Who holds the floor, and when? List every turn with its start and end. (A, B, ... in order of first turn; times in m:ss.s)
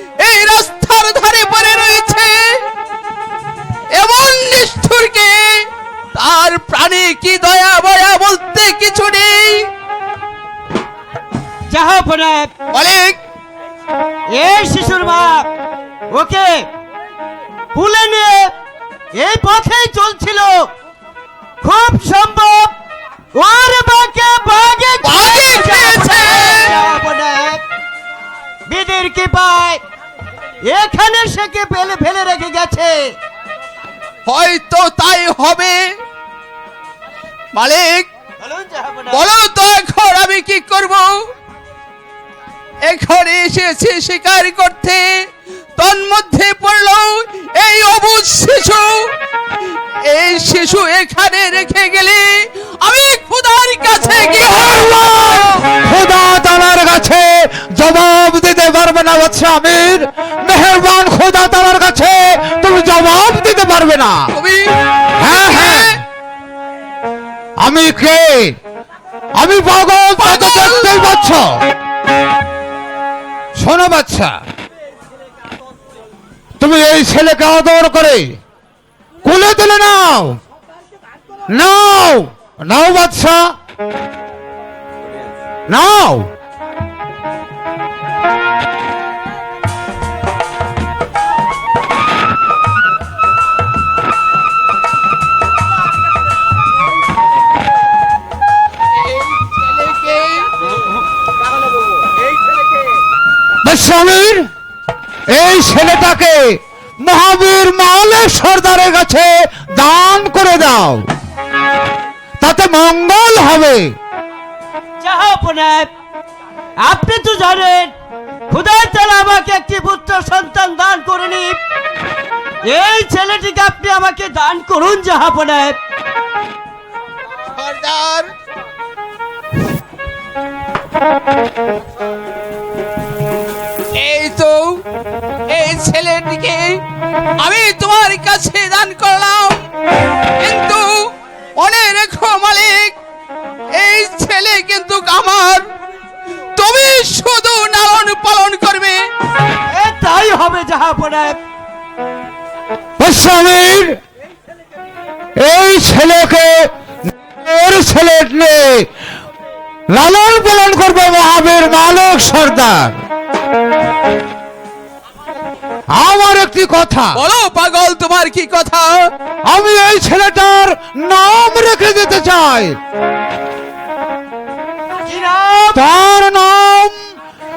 0:00.2-0:02.5 A
0:04.0-0:09.7 A
0:11.7-0:12.5 B
0:12.7-0:13.2 A
0:14.3-0:15.5 B
0:16.1-0:16.7 B
0:17.7-0:18.5 B
0:19.1-0:20.7 B
0:21.6-0:22.8 B
0:23.3-0:27.6 B
0:25.0-0:26.8 A
0:28.7-0:29.8 B
0:30.6-0:33.2 B
0:34.3-0:35.8 A
0:37.5-0:38.1 A
0:38.4-0:39.3 B
0:39.1-0:41.2 A
0:42.9-0:45.2 A
0:45.8-0:49.1 A
0:50.0-0:54.9 A
0:54.4-1:04.3 C
1:04.3-1:06.0 A
1:05.2-1:06.0 C
1:07.6-1:08.6 C
1:09.4-1:11.7 C
1:10.2-1:11.0 A
1:13.6-1:14.4 C
1:16.6-1:18.4 C
1:19.2-1:20.4 C
1:21.5-1:23.6 C
1:25.7-1:26.3 C
1:39.3-1:40.5 A
1:43.6-1:44.5 C
1:45.3-1:51.1 C
1:52.4-1:54.0 C
1:55.0-1:55.9 B
1:56.8-1:57.9 B
1:58.5-2:01.6 B
2:02.6-2:05.8 B
2:07.5-2:08.3 A
2:14.0-2:14.7 A
2:15.5-2:16.8 A
2:17.4-2:19.6 A
2:20.4-2:20.9 A
2:21.6-2:22.9 A
2:23.7-2:25.6 A
2:26.6-2:29.0 A
2:29.7-2:31.4 B
2:33.0-2:34.0 C
2:35.4-2:38.9 C
2:39.9-2:43.0 C
2:45.9-2:47.2 C
2:47.1-2:49.1 A
2:49.4-2:52.8 C
2:55.0-2:55.8 B
2:55.7-2:57.0 C